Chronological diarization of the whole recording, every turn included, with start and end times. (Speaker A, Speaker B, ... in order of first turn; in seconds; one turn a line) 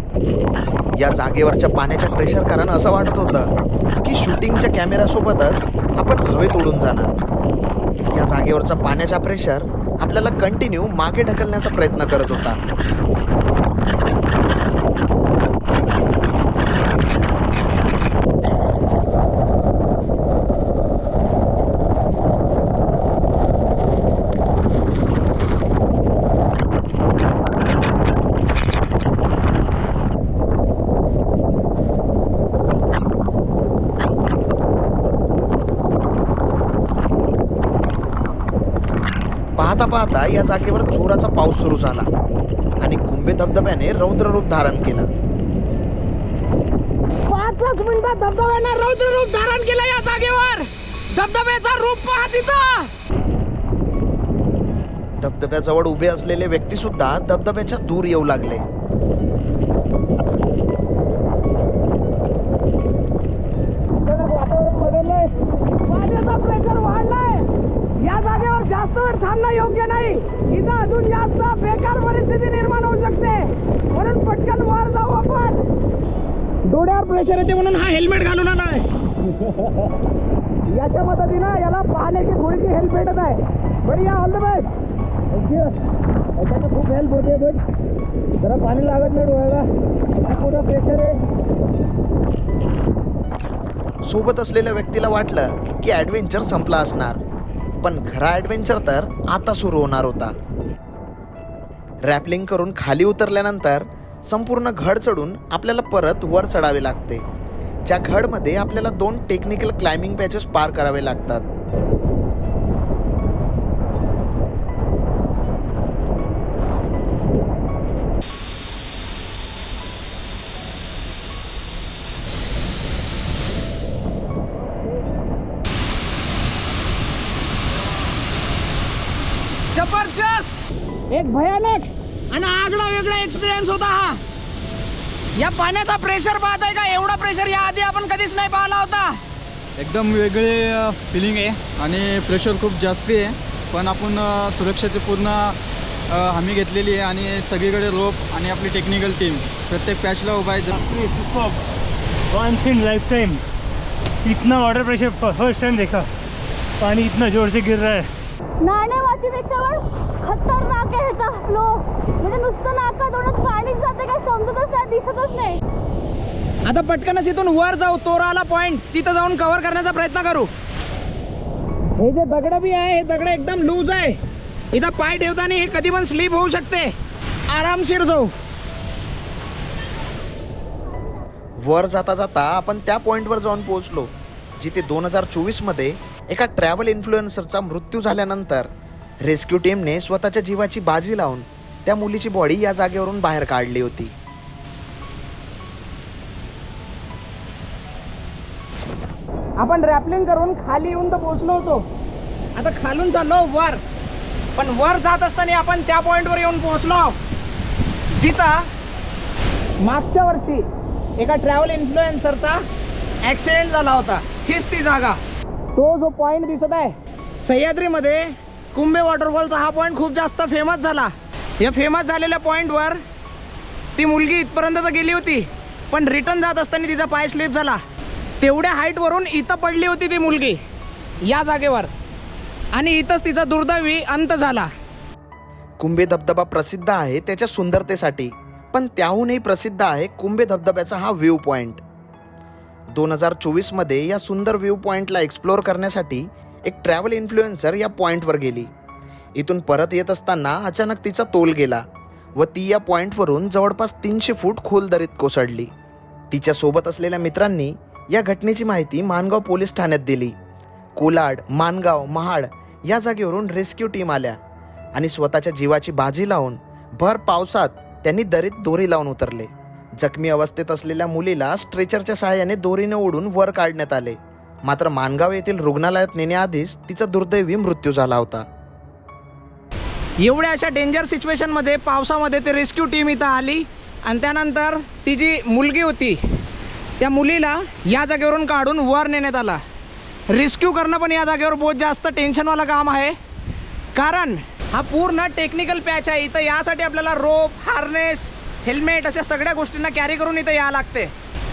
Speaker A: 0.9-3.5
Speaker A: 4.0-7.2
Speaker A: 8.1-12.6
Speaker A: 39.5-42.1
Speaker A: 42.8-45.1
Speaker B: 47.2-52.9
Speaker A: 55.2-58.6
Speaker B: 64.1-65.3
Speaker B: 65.8-75.6
Speaker B: 76.6-78.8
Speaker B: 80.7-84.7
Speaker B: 85.4-85.7
Speaker B: 86.4-87.6
Speaker B: 88.4-89.7
Speaker B: 90.2-91.2
Speaker A: 94.1-97.2
Speaker A: 97.8-100.3
Speaker A: 102.1-107.2
Speaker A: 107.9-111.5
Speaker B: 129.7-130.5
Speaker B: 131.1-134.2
Speaker B: 135.4-139.2
Speaker C: 139.8-145.6
Speaker C: 146.1-150.7
Speaker D: 150.7-151.6
Speaker D: 152.3-153.4
Speaker D: 154.2-156.1
Speaker D: 156.8-158.1
Speaker E: 158.6-165.6
Speaker B: 166.7-170.5
Speaker B: 172.0-174.2
Speaker B: 174.7-176.9
Speaker B: 177.5-178.3
Speaker A: 181.6-188.7
Speaker A: 189.2-194.1
Speaker B: 199.6-201.8
Speaker B: 202.6-203.8
Speaker B: 204.6-207.2
Speaker B: 208.1-208.7
Speaker B: 209.8-210.7
Speaker B: 211.2-212.6
Speaker B: 213.2-215.2
Speaker B: 215.8-223.0
Speaker B: 224.0-227.8
Speaker B: 228.4-230.6
Speaker B: 231.2-231.9
Speaker B: 232.7-234.7
Speaker A: 235.8-241.8
Speaker A: 242.9-248.7
Speaker A: 249.4-251.8
Speaker A: 252.4-255.7
Speaker A: 256.3-260.3
Speaker A: 260.9-264.4
Speaker A: 264.9-278.4
Speaker B: 280.2-286.2
Speaker B: 287.0-289.6
Speaker B: 290.3-293.1
Speaker B: 293.9-301.1